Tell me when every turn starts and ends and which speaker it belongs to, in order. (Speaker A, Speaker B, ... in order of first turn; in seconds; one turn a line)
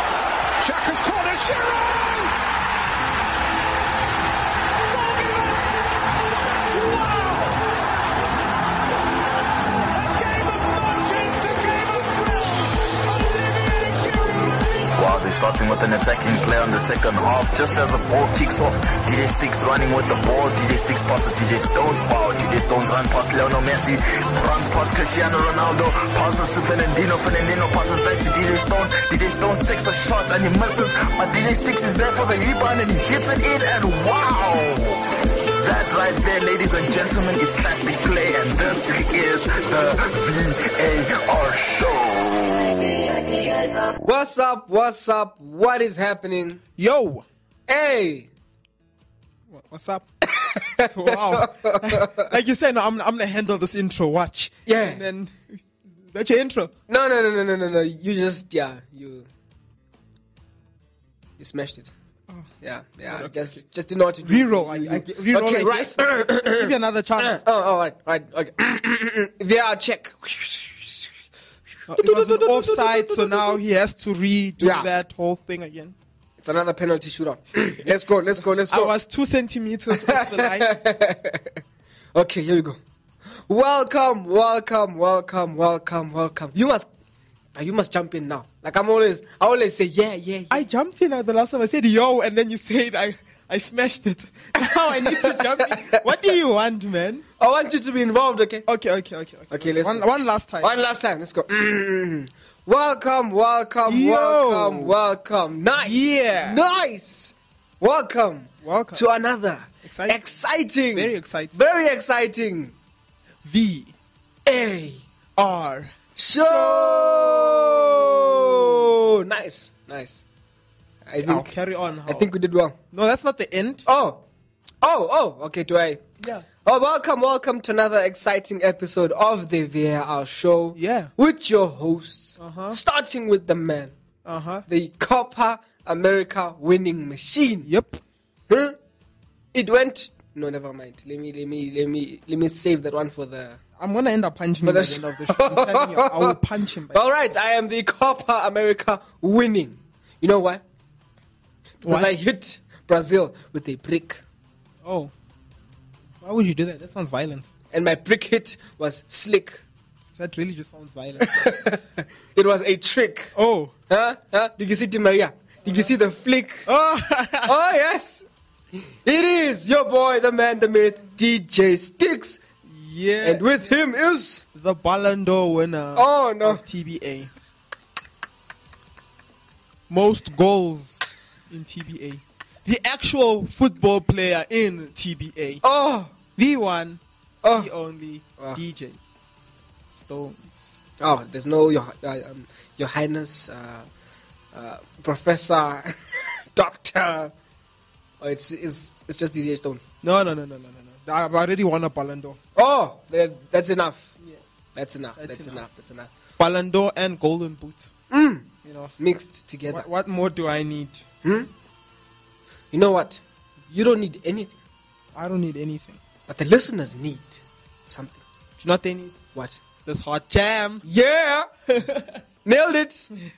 Speaker A: 0.6-2.3
Speaker A: 4.9-5.4
Speaker A: 7.0-7.5
Speaker A: 10.7-11.6
Speaker B: 14.9-35.0
Speaker B: 35.6-43.6
Speaker C: 44.0-46.6
Speaker D: 46.8-47.2
Speaker C: 47.7-48.3
Speaker D: 49.5-50.1
Speaker C: 50.4-52.3
Speaker D: 50.9-55.4
Speaker C: 54.6-55.0
Speaker D: 56.0-56.7
Speaker C: 56.9-59.3
Speaker C: 61.4-61.9
Speaker C: 62.6-71.1
Speaker D: 63.0-63.6
Speaker D: 64.2-67.4
Speaker D: 71.9-76.0
Speaker C: 71.9-73.6
Speaker C: 74.6-74.9
Speaker C: 76.4-78.9
Speaker D: 78.7-80.7
Speaker C: 79.9-81.6
Speaker C: 82.1-82.8
Speaker C: 83.5-86.9
Speaker C: 87.5-90.6
Speaker D: 90.5-97.2
Speaker C: 94.6-96.0
Speaker C: 97.4-98.7
Speaker D: 98.7-100.7
Speaker C: 99.5-100.0
Speaker C: 100.6-112.7
Speaker D: 103.8-104.9
Speaker D: 105.8-106.6
Speaker D: 108.6-109.0
Speaker D: 109.8-110.4
Speaker D: 110.9-111.5
Speaker D: 113.4-113.9
Speaker C: 114.5-115.0
Speaker D: 115.4-118.8
Speaker C: 116.2-120.2
Speaker C: 121.0-121.5
Speaker D: 121.2-122.3
Speaker C: 122.0-122.8
Speaker D: 122.9-123.8
Speaker C: 123.9-124.2
Speaker C: 124.8-126.0
Speaker C: 126.6-133.9
Speaker D: 130.7-131.1
Speaker D: 132.4-132.8
Speaker D: 134.2-134.7
Speaker C: 134.7-137.7
Speaker D: 137.6-138.0
Speaker C: 138.5-138.8
Speaker C: 139.5-143.6
Speaker D: 143.8-147.0
Speaker C: 144.6-146.4
Speaker C: 146.9-150.6
Speaker C: 151.8-154.2
Speaker D: 151.8-152.1
Speaker D: 154.8-155.1
Speaker D: 156.2-157.5
Speaker C: 157.7-159.6
Speaker D: 160.2-161.5
Speaker C: 161.2-163.3
Speaker D: 163.3-163.7
Speaker C: 163.9-166.7
Speaker D: 166.7-167.5
Speaker C: 167.4-168.2
Speaker C: 169.0-172.4
Speaker D: 172.7-173.4
Speaker C: 173.2-174.4
Speaker D: 174.5-177.3
Speaker C: 175.9-176.6
Speaker D: 179.9-185.6
Speaker C: 185.6-186.1
Speaker D: 186.3-189.0
Speaker C: 187.4-187.7
Speaker D: 189.9-190.8
Speaker C: 191.0-193.9
Speaker C: 194.5-195.9
Speaker C: 196.5-197.3
Speaker C: 198.2-199.8
Speaker D: 200.0-202.4
Speaker C: 202.6-204.1
Speaker D: 204.2-204.4
Speaker C: 204.7-206.1
Speaker D: 205.2-205.7
Speaker D: 206.4-207.9
Speaker C: 208.1-208.5
Speaker D: 208.6-208.9
Speaker C: 209.0-209.9
Speaker D: 209.7-211.0
Speaker C: 211.2-211.5
Speaker C: 212.7-214.6
Speaker D: 215.1-216.0
Speaker C: 216.3-218.2
Speaker D: 218.6-219.2
Speaker C: 219.3-219.6
Speaker D: 219.8-220.8
Speaker C: 220.8-221.5
Speaker D: 221.7-222.2
Speaker C: 222.4-223.1